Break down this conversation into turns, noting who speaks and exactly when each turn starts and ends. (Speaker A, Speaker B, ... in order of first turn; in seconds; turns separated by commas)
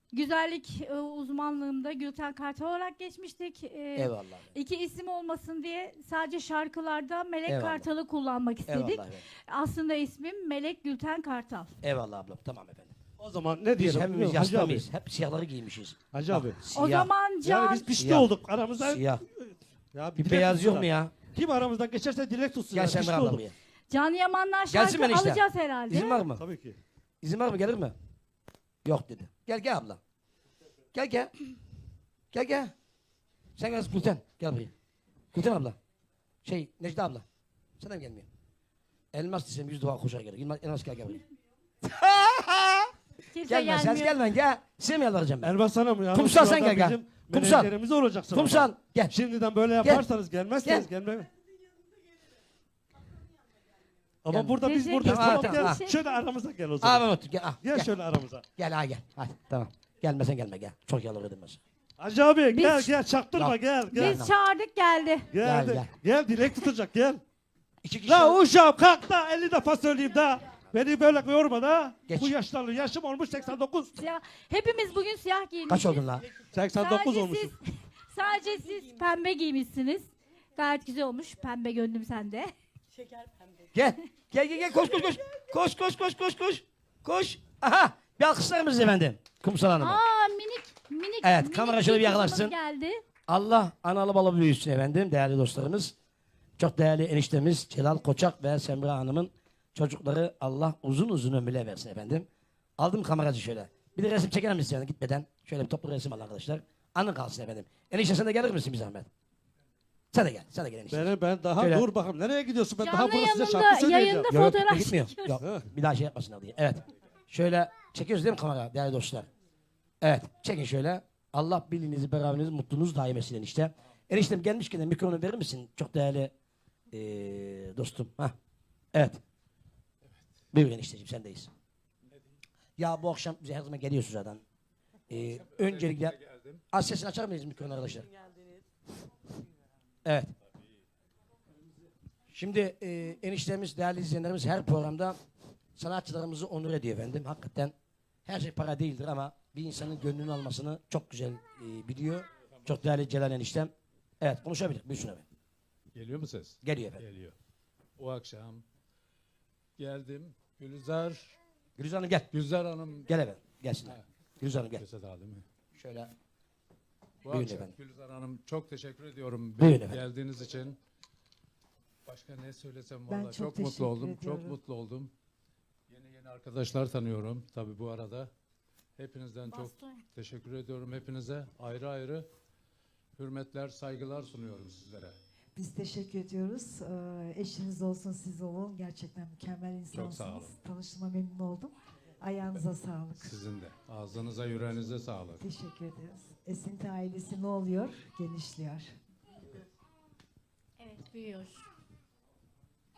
Speaker A: 0.1-11.8, Speaker B: 4.0-4.5, Speaker B: 7.5-7.9, Speaker B: 8.7-9.2, Speaker B: 11.8-12.9, Speaker C: 13.2-14.9, Speaker B: 13.8-17.1, Speaker C: 16.1-16.6, Speaker A: 16.7-17.9, Speaker C: 17.4-23.4, Speaker B: 18.0-19.2, Speaker B: 20.2-21.2, Speaker B: 22.7-23.5, Speaker A: 23.9-26.2, Speaker B: 24.7-26.4, Speaker C: 26.4-26.8, Speaker B: 27.2-28.0, Speaker B: 28.9-30.0, Speaker B: 30.9-31.3, Speaker B: 32.3-32.7, Speaker B: 33.6-34.7, Speaker B: 35.3-35.8, Speaker B: 36.5-37.2, Speaker B: 37.8-38.3, Speaker B: 39.1-41.2, Speaker B: 41.8-42.9, Speaker A: 43.3-44.2, Speaker B: 43.5-45.5, Speaker C: 45.4-51.3, Speaker B: 46.1-47.7, Speaker B: 48.3-49.1, Speaker B: 50.6-50.9, Speaker C: 54.2-57.1, Speaker B: 54.3-55.8, Speaker A: 54.6-56.0, Speaker B: 56.8-57.9, Speaker C: 57.6-58.5, Speaker B: 58.6-61.6, Speaker C: 62.0-64.2, Speaker A: 62.5-62.9, Speaker B: 63.4-64.3, Speaker A: 63.9-65.3, Speaker C: 65.3-67.2, Speaker B: 65.4-65.9, Speaker B: 67.8-68.4, Speaker C: 68.1-74.0, Speaker B: 72.1-72.3, Speaker A: 74.0-75.9, Speaker B: 75.7-76.3, Speaker C: 76.5-77.5, Speaker A: 76.8-82.5, Speaker B: 83.7-90.0, Speaker A: 89.8-93.0, Speaker B: 91.2-92.6, Speaker B: 93.3-95.9, Speaker B: 96.6-102.3, Speaker B: 102.8-109.1, Speaker B: 110.1-111.9, Speaker C: 110.9-114.3, Speaker A: 112.8-115.4, Speaker B: 114.3-119.3, Speaker C: 115.4-115.7, Speaker B: 120.0-126.3, Speaker B: 126.9-128.3, Speaker B: 128.9-129.2, Speaker B: 130.5-131.5, Speaker B: 132.8-134.4, Speaker B: 135.1-136.2, Speaker D: 135.3-136.6, Speaker B: 136.7-138.1, Speaker B: 140.1-140.3, Speaker B: 142.3-145.2, Speaker B: 145.8-147.7, Speaker B: 148.3-155.2, Speaker D: 155.9-157.4, Speaker B: 156.6-157.0, Speaker D: 158.0-158.6, Speaker D: 159.8-161.4, Speaker B: 161.8-162.3, Speaker D: 162.3-163.1, Speaker B: 163.1-164.8, Speaker D: 164.7-165.5, Speaker B: 165.8-166.1, Speaker D: 167.2-170.8, Speaker B: 167.3-167.8, Speaker B: 169.6-170.0, Speaker D: 172.1-175.1, Speaker E: 173.1-174.6, Speaker D: 175.9-178.3, Speaker D: 179.0-182.3, Speaker A: 179.5-180.1, Speaker D: 183.2-185.2, Speaker E: 185.6-193.3, Speaker D: 189.9-190.5, Speaker D: 193.2-195.4, Speaker E: 195.4-198.9, Speaker A: 200.8-201.7